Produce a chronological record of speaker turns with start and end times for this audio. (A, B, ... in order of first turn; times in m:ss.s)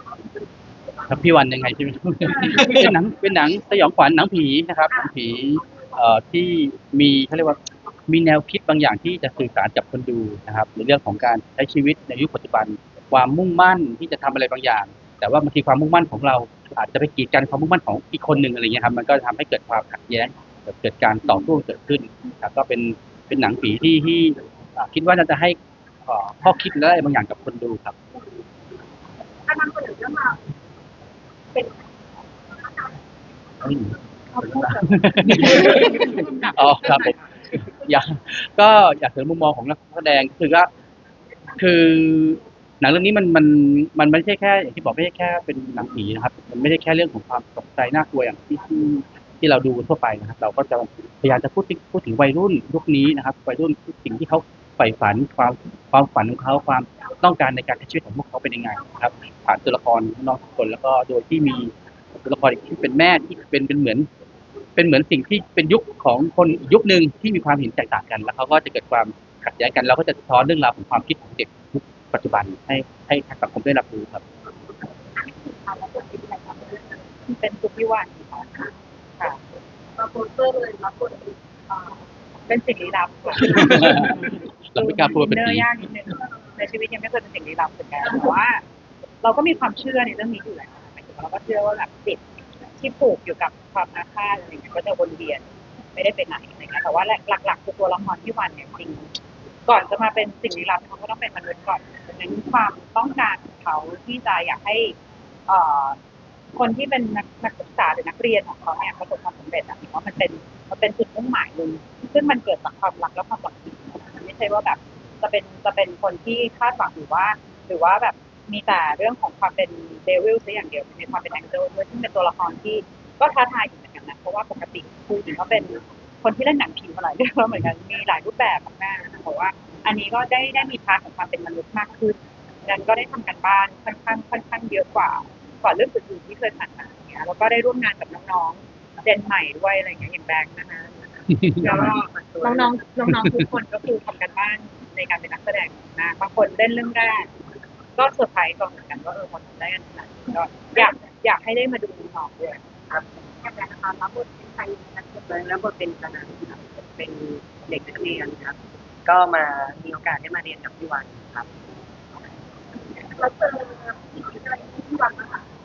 0:01.1-0:27.9 A
0:29.5-0:30.4 B
0:31.5-0:31.8 B
0:32.6-0:32.9 B
0:33.6-0:33.9 A
0:34.3-0:37.0 B
0:34.4-0:37.2 A
0:36.2-0:36.7 C
0:37.7-0:40.7 A
0:41.6-1:04.1 A
1:04.8-1:14.2 A
1:15.2-1:17.0 B
1:17.3-1:19.4 C
1:20.0-1:21.8 B
1:22.5-1:24.2 C
1:23.5-1:24.1 A
1:24.7-1:25.7 A
1:24.7-1:28.6 C
1:29.2-1:32.2 C
1:32.8-1:39.1 C
1:39.7-1:45.0 C
1:45.5-1:46.0 C
1:46.5-2:21.0 C
2:21.5-2:27.3 C
2:21.7-2:22.9 D
2:28.0-2:32.6 C
2:33.4-2:35.4 B
2:35.2-2:41.5 D
2:43.0-2:45.4 B